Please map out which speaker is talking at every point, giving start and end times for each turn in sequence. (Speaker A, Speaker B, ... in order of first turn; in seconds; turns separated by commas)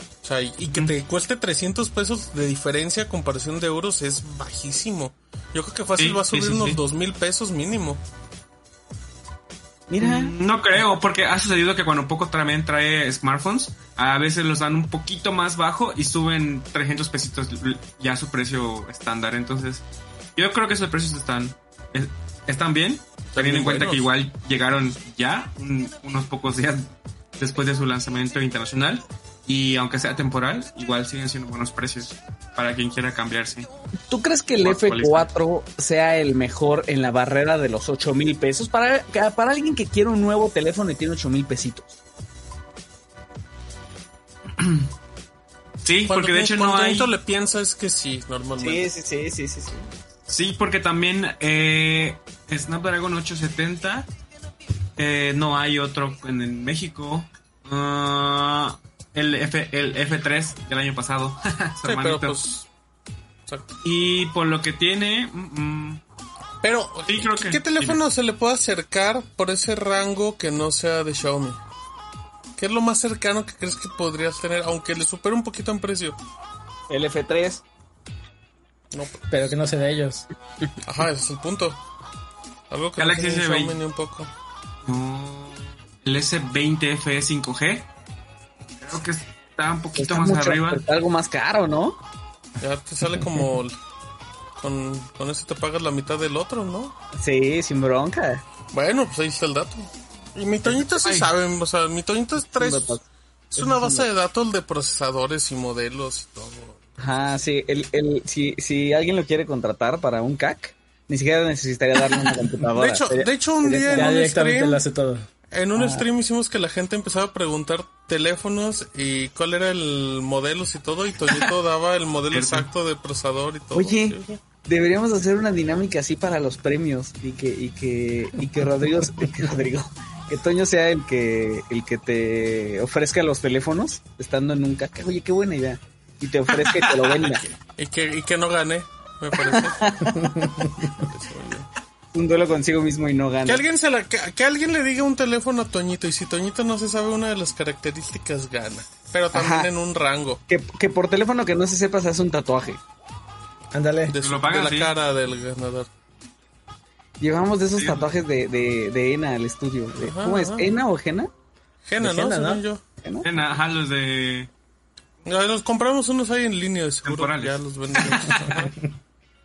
Speaker A: 0.2-8.0, Speaker B: 6.0-6.8, Speaker C: 9.9-10.3, Speaker B: 10.0-19.9, Speaker B: 20.4-33.7, Speaker A: 23.3-24.1, Speaker C: 34.1-42.0, Speaker B: 34.6-35.3, Speaker B: 44.6-44.9, Speaker B: 45.8-47.1, Speaker A: 46.1-48.9, Speaker C: 48.6-49.9, Speaker B: 50.3-54.1, Speaker B: 55.0-62.4, Speaker A: 61.8-62.7, Speaker A: 63.5-63.8, Speaker B: 63.8-66.0, Speaker A: 66.6-71.6, Speaker B: 67.1-68.0, Speaker A: 72.6-76.2, Speaker C: 76.9-77.6, Speaker A: 78.9-79.5, Speaker D: 79.3-80.3, Speaker A: 80.8-81.8, Speaker A: 82.7-84.3, Speaker B: 83.0-83.8, Speaker B: 84.8-87.9, Speaker B: 88.8-90.8, Speaker C: 90.0-92.0, Speaker A: 92.6-93.8, Speaker A: 94.6-96.9, Speaker C: 97.2-98.4, Speaker A: 98.7-103.0, Speaker B: 100.6-101.3, Speaker C: 102.6-103.0, Speaker A: 103.5-107.3, Speaker C: 103.6-104.1, Speaker C: 107.0-114.2, Speaker A: 112.7-114.8, Speaker D: 113.9-115.3, Speaker A: 115.5-124.4, Speaker C: 115.8-116.1, Speaker B: 122.3-122.7, Speaker C: 123.7-137.4, Speaker A: 137.3-140.1, Speaker C: 139.6-140.1, Speaker D: 140.1-140.8, Speaker A: 140.7-141.7, Speaker C: 142.1-143.6, Speaker A: 143.4-150.4, Speaker C: 149.3-149.7, Speaker C: 150.5-152.8, Speaker D: 153.7-154.2, Speaker A: 154.1-155.9, Speaker B: 154.2-154.9, Speaker C: 157.2-161.3, Speaker B: 157.8-158.2, Speaker A: 160.0-160.7, Speaker A: 161.8-162.8, Speaker D: 162.0-162.6, Speaker C: 163.0-163.3, Speaker B: 163.2-164.5, Speaker A: 165.2-168.8, Speaker B: 167.0-168.7